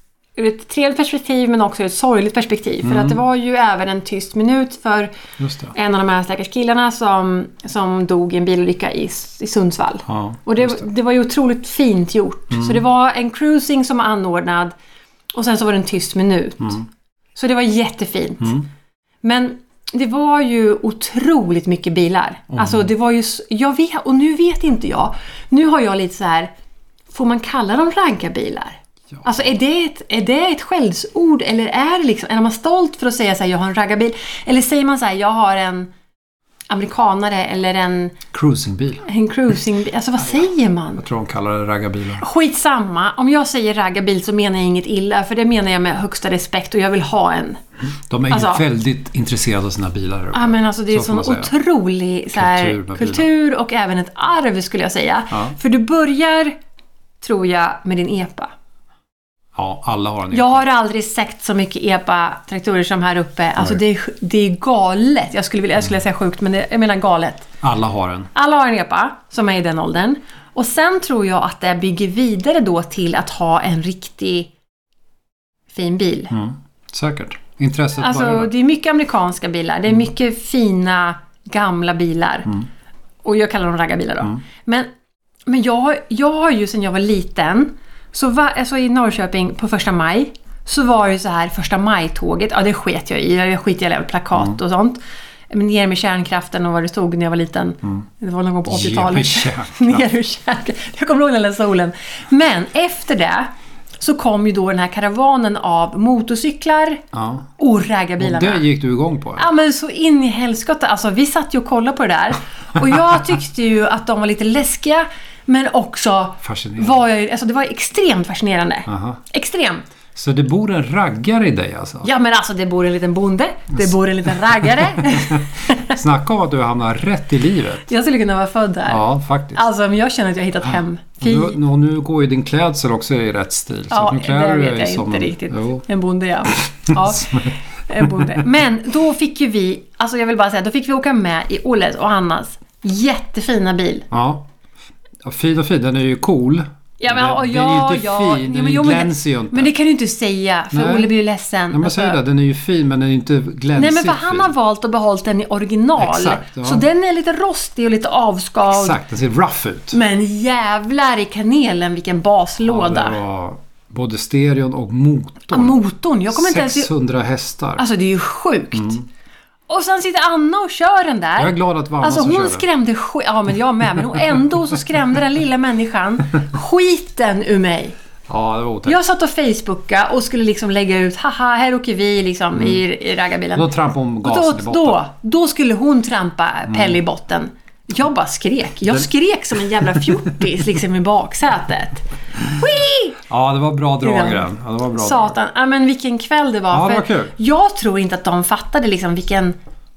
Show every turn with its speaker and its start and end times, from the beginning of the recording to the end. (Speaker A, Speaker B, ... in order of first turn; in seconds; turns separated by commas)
Speaker A: 0.3-5.1, Speaker B: 2.8-3.2, Speaker B: 5.4-5.7, Speaker A: 5.7-14.7, Speaker B: 10.1-10.8, Speaker B: 12.5-12.8, Speaker A: 15.3-16.8, Speaker A: 17.4-18.6, Speaker A: 19.2-26.5, Speaker B: 22.5-22.9, Speaker A: 27.1-35.9, Speaker A: 36.7-38.2, Speaker B: 38.3-39.0, Speaker A: 39.0-41.0, Speaker B: 41.0-42.2, Speaker A: 42.2-47.6, Speaker B: 48.1-51.5, Speaker A: 48.3-48.6, Speaker A: 50.3-56.5, Speaker B: 52.3-53.3, Speaker A: 57.2-58.5, Speaker B: 59.5-60.6, Speaker A: 60.3-67.5, Speaker B: 67.6-68.3, Speaker A: 68.3-74.5, Speaker A: 75.7-76.3, Speaker B: 76.3-78.5, Speaker A: 78.0-82.5, Speaker A: 83.2-84.9, Speaker A: 85.5-95.0, Speaker A: 95.5-107.0, Speaker B: 98.7-100.1, Speaker B: 107.1-107.5, Speaker A: 107.6-108.6, Speaker B: 108.2-109.5, Speaker A: 109.3-119.8, Speaker B: 116.4-117.0, Speaker B: 118.9-119.2, Speaker B: 120.1-122.1, Speaker A: 122.0-126.0, Speaker B: 123.8-127.9, Speaker A: 127.9-131.6, Speaker B: 128.9-129.6, Speaker B: 131.2-135.8, Speaker A: 133.9-144.1, Speaker B: 136.5-138.4, Speaker B: 144.1-144.5, Speaker B: 145.2-149.7, Speaker A: 147.0-152.2, Speaker B: 150.7-151.1, Speaker B: 151.7-154.5, Speaker A: 153.8-159.0, Speaker B: 156.0-156.8, Speaker B: 158.7-160.0, Speaker A: 159.9-163.2, Speaker B: 162.7-165.8, Speaker A: 165.5-166.9, Speaker B: 166.3-167.8, Speaker A: 167.8-169.0, Speaker B: 168.7-169.0, Speaker A: 169.7-177.9, Speaker B: 171.4-172.7, Speaker B: 178.3-179.0, Speaker A: 178.8-183.7, Speaker B: 182.6-182.8, Speaker B: 183.5-185.0, Speaker A: 184.2-193.2, Speaker B: 186.7-187.0, Speaker B: 189.8-190.3, Speaker B: 193.3-195.3, Speaker A: 194.0-199.6, Speaker B: 196.7-197.3